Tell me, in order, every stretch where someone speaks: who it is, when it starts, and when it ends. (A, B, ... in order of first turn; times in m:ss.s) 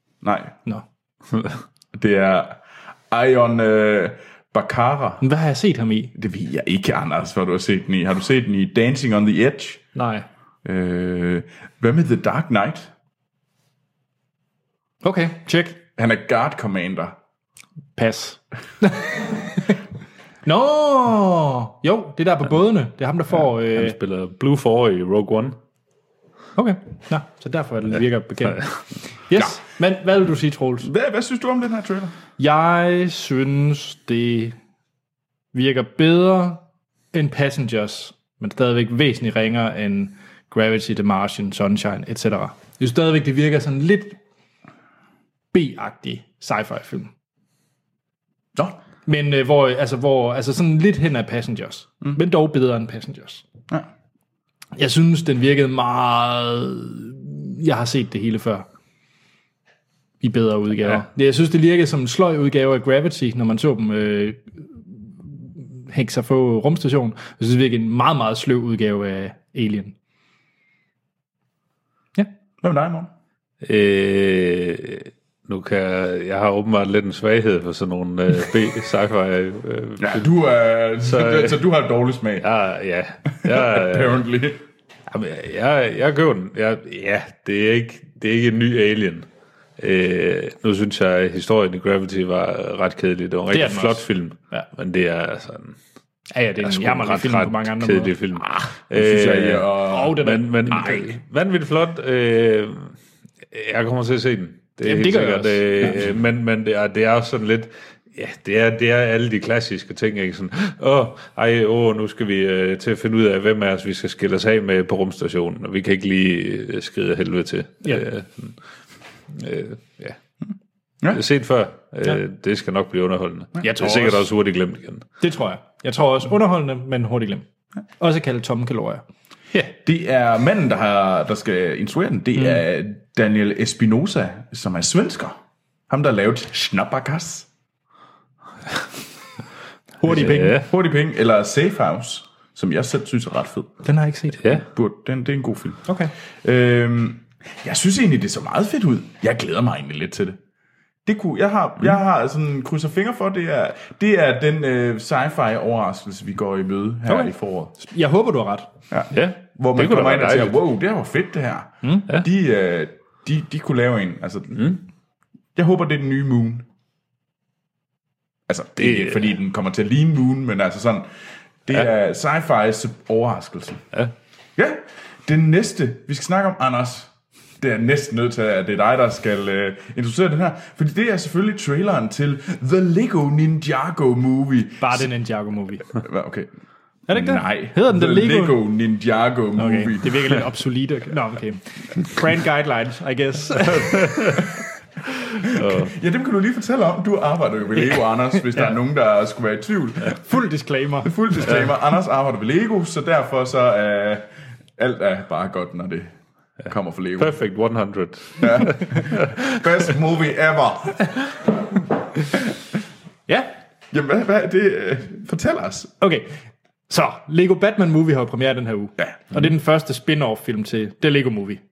0:00.2-0:00.6 A
0:01.9-0:05.2 A
0:05.2-0:06.1 B
0:06.2-0:09.8 A
0:10.0-0:10.3 B
0:10.6-0:12.9 A
0:15.0-0:15.8 B
0:16.0-0:17.2 A
0:18.0-0:19.8 B
0:20.4-0:24.0 B
0:23.4-0:25.6 C
0:26.6-0:30.9 B
0:30.8-0:32.2 A
0:32.4-0:34.6 B
0:35.5-0:36.6 B
0:37.1-0:44.2 B
0:45.5-0:47.1 B
0:49.1-0:53.4 B
0:54.8-0:58.7 B
1:00.2-1:04.4 B
1:05.9-1:10.0 B
1:12.6-1:13.1 A
1:13.6-1:20.2 C
1:20.0-1:22.5 A
1:21.0-1:21.6 C
1:22.4-1:24.2 C
1:23.4-1:24.6 A
1:25.1-1:29.3 C
1:29.8-1:35.8 C
1:33.5-1:34.7 B
1:36.3-1:38.2 B
1:36.6-1:42.9 C
1:38.9-1:40.2 A
1:39.9-1:41.2 B
1:43.5-1:58.6 C
1:44.8-1:46.0 B
1:59.3-2:00.2 C
2:01.1-2:05.0 C
2:03.6-2:04.2 B
2:05.2-2:07.4 B
2:08.0-2:09.0 B
2:09.8-2:15.4 A
2:15.9-2:17.5 A
2:20.0-2:20.6 B
2:20.1-2:20.6 C
2:20.1-2:23.8 A
2:23.8-2:24.6 B
2:24.5-2:25.9 A
2:25.9-2:26.1 B
2:26.4-2:30.4 A
2:31.0-2:37.7 A
2:37.1-2:38.7 B
2:38.9-2:44.8 A
2:39.1-2:40.6 C
2:45.6-2:46.7 A
2:48.5-2:51.1 A
2:48.8-2:49.3 C
2:51.7-2:53.8 A
2:54.6-3:05.1 A
3:04.8-3:05.9 B
3:05.9-3:06.5 A
3:07.1-3:08.6 B
3:07.1-3:10.4 A
3:09.6-3:14.3 B
3:14.1-3:14.4 C
3:15.4-3:15.9 C
3:15.4-3:20.2 A
3:18.3-3:18.7 B
3:20.1-3:21.2 B
3:21.0-3:26.1 A
3:26.7-3:27.4 A
3:27.2-3:29.6 C
3:28.4-3:31.1 A
3:33.9-3:35.9 A
3:36.0-3:36.3 B
3:36.9-3:41.6 B